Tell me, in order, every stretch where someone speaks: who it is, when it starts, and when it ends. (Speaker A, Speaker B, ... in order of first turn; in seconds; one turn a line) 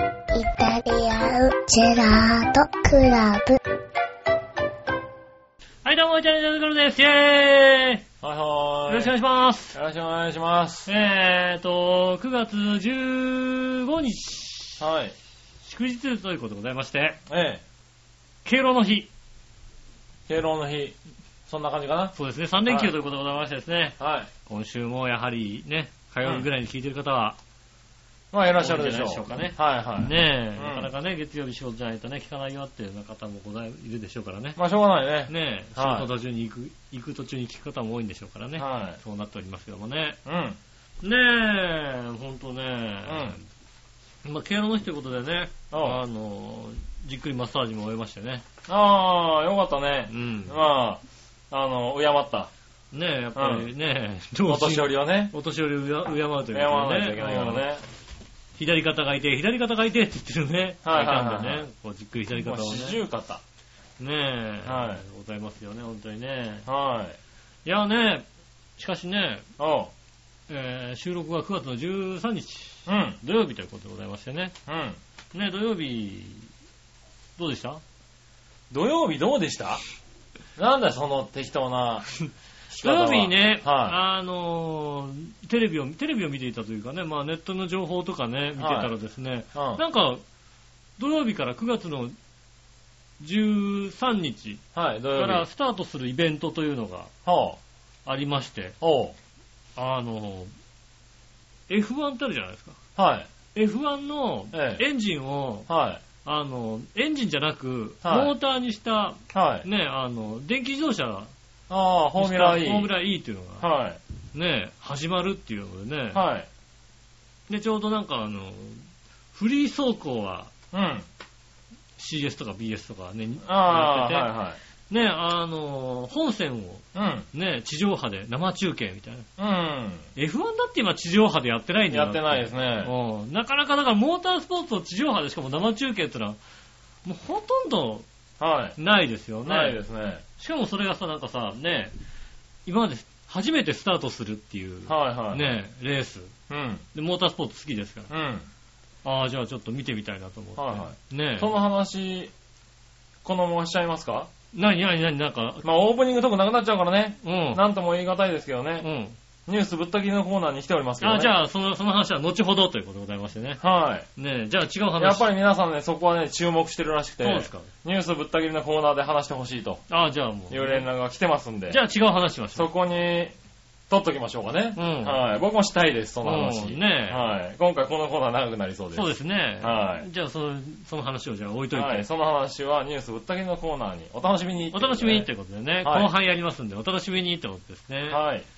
Speaker A: 0.3-3.6
Speaker B: 5.8-8.0
Speaker C: 8.2-9.1
Speaker B: 8.9-9.8
Speaker C: 9.7-10.9
Speaker B: 10.8-14.8
Speaker C: 14.8-15.1
Speaker B: 15.6-17.2
Speaker C: 17.3-17.6
Speaker B: 18.4-19.1
Speaker C: 20.3-20.9
Speaker C: 21.5-22.1
Speaker B: 22.1-27.4
Speaker C: 22.7-22.9
Speaker C: 24.0-24.3
Speaker C: 28.3-30.9
Speaker B: 28.6-34.6
Speaker C: 34.5-36.1
Speaker B: 35.3-40.2
Speaker C: 38.6-39.0
Speaker C: 40.2-40.6
Speaker B: 41.0-43.4
Speaker C: 43.0-43.4
Speaker B: 44.2-48.4
Speaker C: 45.7-46.0
Speaker C: 48.7-52.5
Speaker B: 50.1-50.6
Speaker B: 52.9-57.6
Speaker C: 53.4-53.7
Speaker C: 54.5-55.3
Speaker C: 56.5-57.8
Speaker B: 58.6-63.0
Speaker C: 60.8-61.6
Speaker C: 62.3-63.4
Speaker B: 64.0-66.7
Speaker C: 64.6-65.0
Speaker C: 66.7-67.2
Speaker B: 67.6-68.2
Speaker B: 68.8-69.4
Speaker C: 69.6-69.9
Speaker B: 70.5-74.5
Speaker C: 72.9-73.2
Speaker C: 74.7-75.0
Speaker B: 75.3-76.5
Speaker B: 77.4-77.8
Speaker C: 78.7-79.8
Speaker C: 80.6-82.1
Speaker C: 82.7-84.0
Speaker B: 82.8-90.2
Speaker C: 88.6-88.9
Speaker C: 89.5-89.8
Speaker B: 91.0-92.2
Speaker B: 93.2-94.6
Speaker C: 94.7-95.5
Speaker B: 95.1-97.1
Speaker C: 97.2-97.6
Speaker B: 98.0-98.7
Speaker C: 98.8-99.2
Speaker B: 99.8-100.5
Speaker B: 101.7-102.8
Speaker C: 103.0-103.3
Speaker B: 103.5-105.7
Speaker C: 104.5-104.8
Speaker C: 105.7-106.0
Speaker B: 106.2-111.3
Speaker C: 108.0-108.3
Speaker C: 109.3-109.7
Speaker C: 111.7-112.9
Speaker B: 112.2-113.6
Speaker C: 113.6-114.0
Speaker B: 114.3-116.2
Speaker C: 116.1-116.5
Speaker B: 117.5-120.5
Speaker C: 120.7-121.0
Speaker B: 122.0-124.3
Speaker C: 123.4-124.6
Speaker B: 124.9-129.3
Speaker C: 126.9-127.3
Speaker C: 129.4-130.1
Speaker B: 130.2-136.4
Speaker C: 131.9-132.9
Speaker B: 137.0-138.1
Speaker C: 138.4-138.8
Speaker B: 138.8-139.8
Speaker C: 139.4-140.2
Speaker B: 140.4-141.9
Speaker B: 142.7-146.3
Speaker C: 144.9-145.5
Speaker C: 146.5-146.8
Speaker B: 146.9-148.1
Speaker C: 148.1-148.5
Speaker B: 149.0-151.5
Speaker C: 150.6-152.3
Speaker C: 153.2-154.3
Speaker B: 154.5-155.6
Speaker C: 155.6-158.9
Speaker B: 157.2-157.6
Speaker B: 158.8-159.2
Speaker C: 159.5-161.3
Speaker B: 161.0-163.6
Speaker C: 163.6-164.1
Speaker B: 164.2-165.3
Speaker C: 165.0-169.8
Speaker B: 167.2-167.7
Speaker B: 169.9-170.9
Speaker C: 170.5-171.8
Speaker B: 171.7-172.7
Speaker C: 172.5-173.3
Speaker C: 173.9-180.1
Speaker B: 174.7-175.2
Speaker B: 176.2-177.2
Speaker B: 178.9-182.0
Speaker C: 181.7-185.3
Speaker B: 184.7-188.2
Speaker C: 185.8-186.1
Speaker C: 188.1-188.4